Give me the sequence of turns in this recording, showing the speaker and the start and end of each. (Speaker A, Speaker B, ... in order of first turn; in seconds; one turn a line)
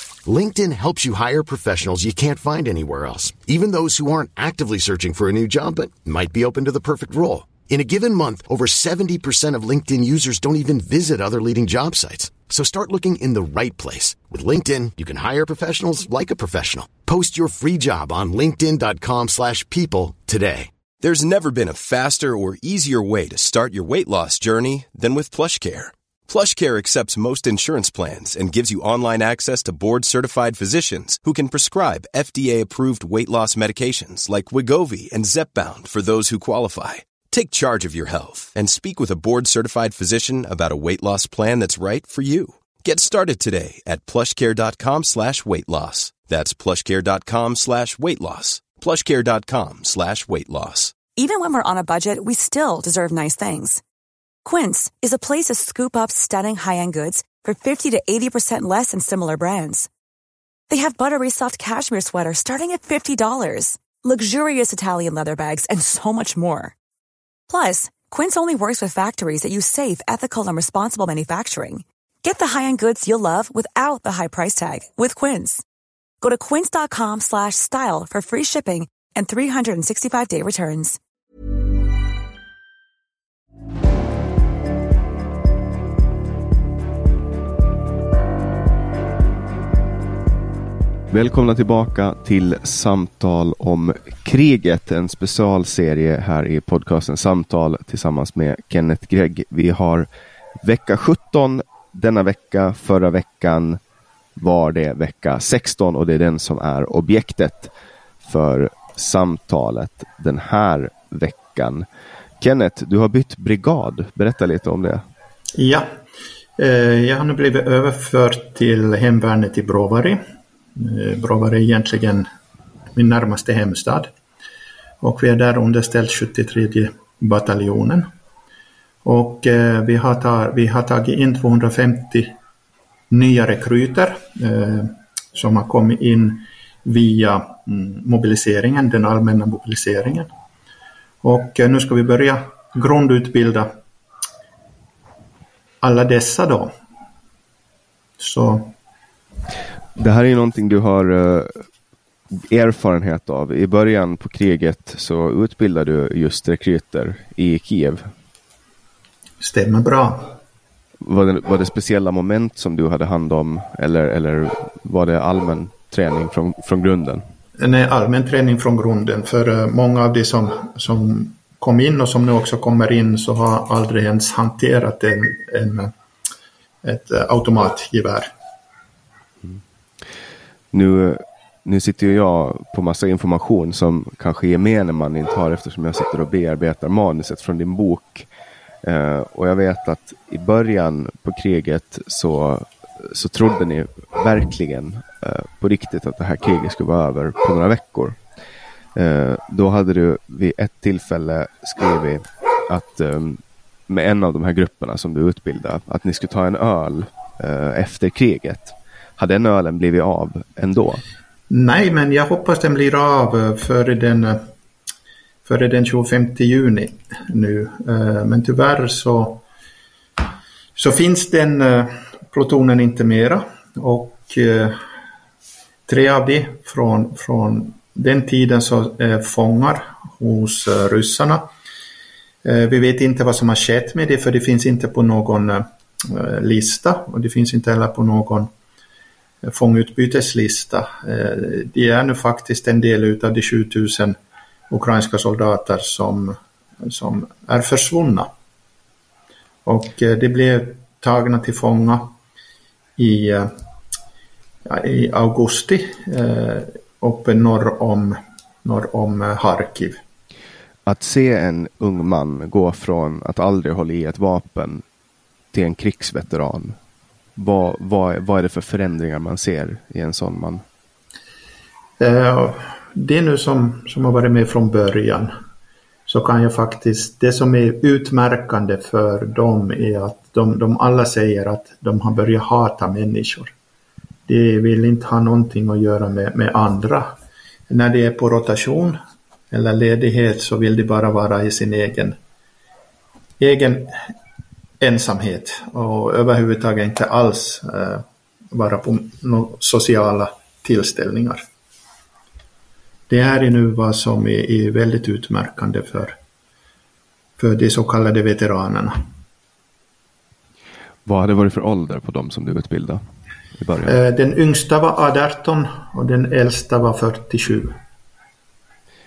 Speaker A: 0.3-20.7
Speaker B: 21.0-51.0
Speaker C: 51.2-53.8
Speaker C: 54.4-59.9
Speaker C: 60.7-66.7
Speaker C: 67.5-75.6
Speaker C: 76.2-81.0
Speaker D: 91.1-100.1
Speaker D: 100.6-103.8
Speaker D: 104.4-107.7
Speaker D: 108.2-111.9
Speaker D: 112.4-115.0
Speaker E: 115.6-115.9
Speaker E: 116.6-120.2
Speaker E: 120.8-122.3
Speaker E: 122.9-124.1
Speaker E: 125.0-128.1
Speaker E: 129.0-132.3
Speaker E: 133.1-140.3
Speaker E: 141.2-143.7
Speaker E: 145.8-146.7
Speaker E: 148.2-148.7
Speaker D: 149.9-151.6
Speaker D: 152.3-158.1
Speaker E: 159.4-160.3
Speaker D: 161.0-167.2
Speaker E: 167.6-175.9
Speaker E: 176.8-178.3
Speaker D: 180.7-188.3
Speaker D: 188.8-198.2
Speaker D: 198.9-211.0
Speaker E: 211.5-214.4
Speaker E: 215.4-219.4
Speaker E: 220.8-224.8
Speaker E: 225.9-231.5
Speaker E: 232.4-238.5
Speaker E: 239.4-244.2
Speaker E: 244.7-248.3
Speaker E: 249.7-252.1
Speaker E: 253.0-253.5
Speaker E: 254.7-260.0
Speaker D: 260.9-264.8
Speaker D: 265.5-266.8
Speaker D: 267.4-270.6
Speaker E: 272.0-275.3
Speaker E: 276.1-283.5
Speaker E: 284.3-287.1
Speaker E: 287.7-289.0
Speaker E: 289.5-292.2
Speaker E: 293.4-294.0
Speaker E: 294.8-301.4
Speaker E: 303.1-306.2
Speaker E: 307.4-309.0
Speaker D: 311.1-313.0
Speaker D: 313.6-313.9
Speaker E: 313.9-317.8